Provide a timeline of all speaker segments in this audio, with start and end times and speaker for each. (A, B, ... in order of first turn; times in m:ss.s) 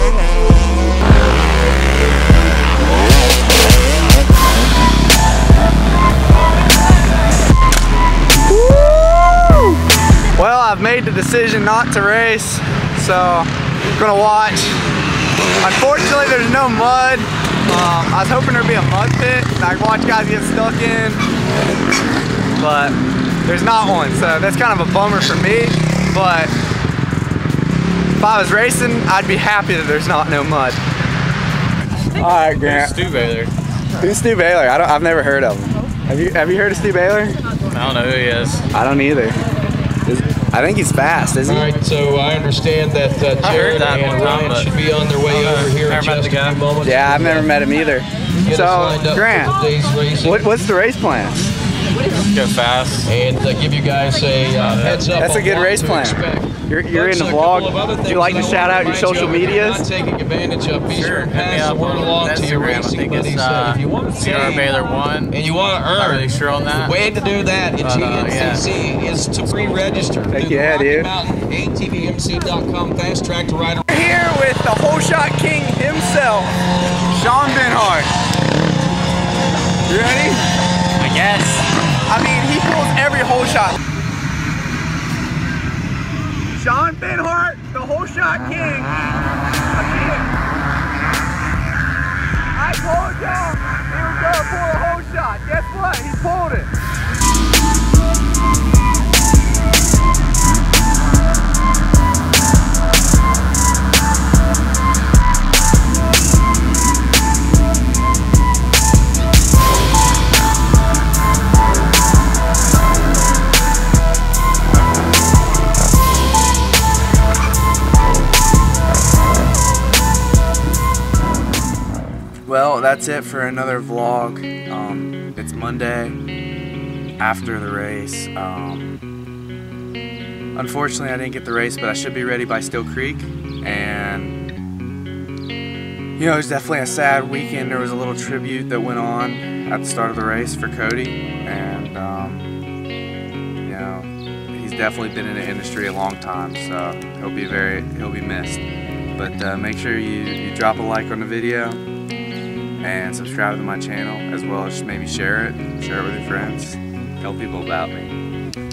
0:08.5-0:09.8 A
0:10.4-0:14.8 A
0:15.6-0:21.2 A
0:22.6-0:26.5 A
0:28.2-0:30.8 A
0:32.2-0:33.0 A
0:32.5-0:33.5 B
0:34.0-0:37.4 A
0:37.7-0:38.6 B
0:38.7-0:39.4 A
0:40.0-0:41.7 A
0:41.4-0:47.5 C
0:43.4-0:46.6 B
0:46.8-0:49.6 A
0:48.4-0:50.5 C
0:50.2-0:51.5 A
0:52.1-0:53.1 B
0:53.0-1:04.8 C
0:54.6-0:55.1 B
0:55.2-0:59.8 A
1:00.8-1:07.0 B
1:05.3-1:13.9 C
1:07.8-1:08.7 B
1:09.5-1:09.8 B
1:10.3-1:11.1 A
1:13.9-1:16.5 A
1:17.1-1:18.1 A
1:19.9-1:20.4 A
1:21.0-1:21.6 B
1:22.0-1:23.8 A
1:26.5-1:28.9 A
1:29.7-1:30.3 A
1:32.5-1:36.7 A
2:02.4-2:06.2 A
2:07.2-2:09.0 A
2:10.5-2:14.4 A
2:16.2-2:22.5 A
2:23.6-2:28.6 A
2:29.2-2:31.8 A
2:32.8-2:38.2 A